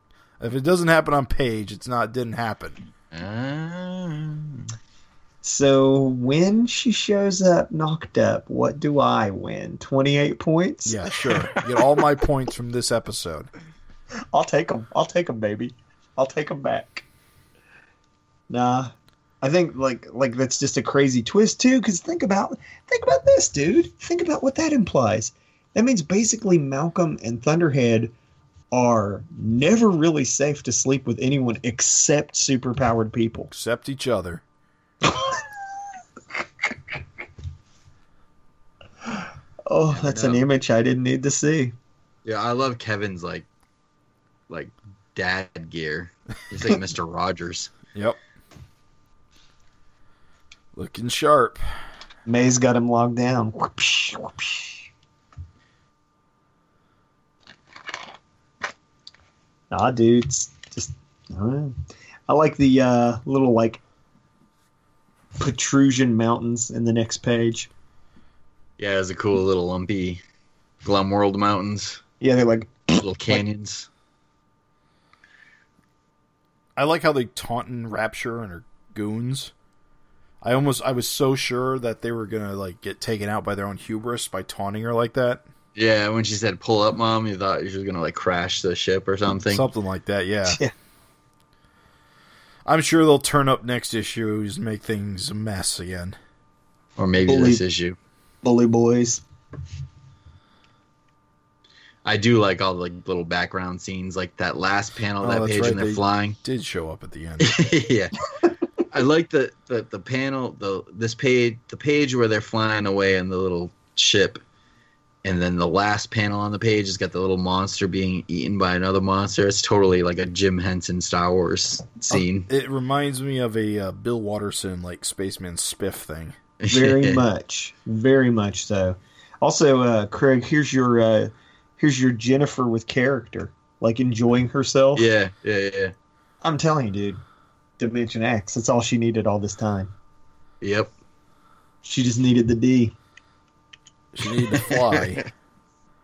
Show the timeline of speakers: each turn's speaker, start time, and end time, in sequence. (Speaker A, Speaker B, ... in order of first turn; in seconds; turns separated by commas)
Speaker A: 0.4-2.8, Speaker B: 3.1-4.7, Speaker C: 5.4-11.6, Speaker A: 10.8-13.5, Speaker C: 14.3-17.1, Speaker C: 18.5-28.1, Speaker C: 28.7-33.5, Speaker A: 33.5-34.4, Speaker C: 35.0-35.5, Speaker C: 36.6-37.0, Speaker C: 39.0-41.7, Speaker B: 40.0-40.4, Speaker B: 42.2-43.5, Speaker B: 44.5-47.7, Speaker A: 47.9-48.2, Speaker A: 50.7-51.6, Speaker C: 52.2-54.8, Speaker C: 59.7-63.8, Speaker C: 65.4-67.7, Speaker B: 68.8-70.2, Speaker B: 70.8-72.0, Speaker C: 72.2-73.4, Speaker B: 73.0-73.9, Speaker A: 76.8-79.5, Speaker A: 80.4-85.5, Speaker B: 85.7-89.7, Speaker A: 89.5-90.6, Speaker C: 90.5-90.7, Speaker A: 92.7-96.2, Speaker B: 97.0-98.0, Speaker C: 97.2-97.6, Speaker C: 98.4-99.2, Speaker B: 102.0-106.4, Speaker A: 105.2-107.6, Speaker B: 107.4-108.2, Speaker B: 108.9-114.4, Speaker B: 115.2-122.5, Speaker A: 122.5-126.3, Speaker B: 126.6-127.2, Speaker C: 126.7-135.1, Speaker B: 134.9-135.9, Speaker C: 136.4-137.2, Speaker C: 137.8-139.9, Speaker B: 140.6-140.9, Speaker C: 141.8-142.9, Speaker A: 144.1-145.2, Speaker B: 144.4-145.2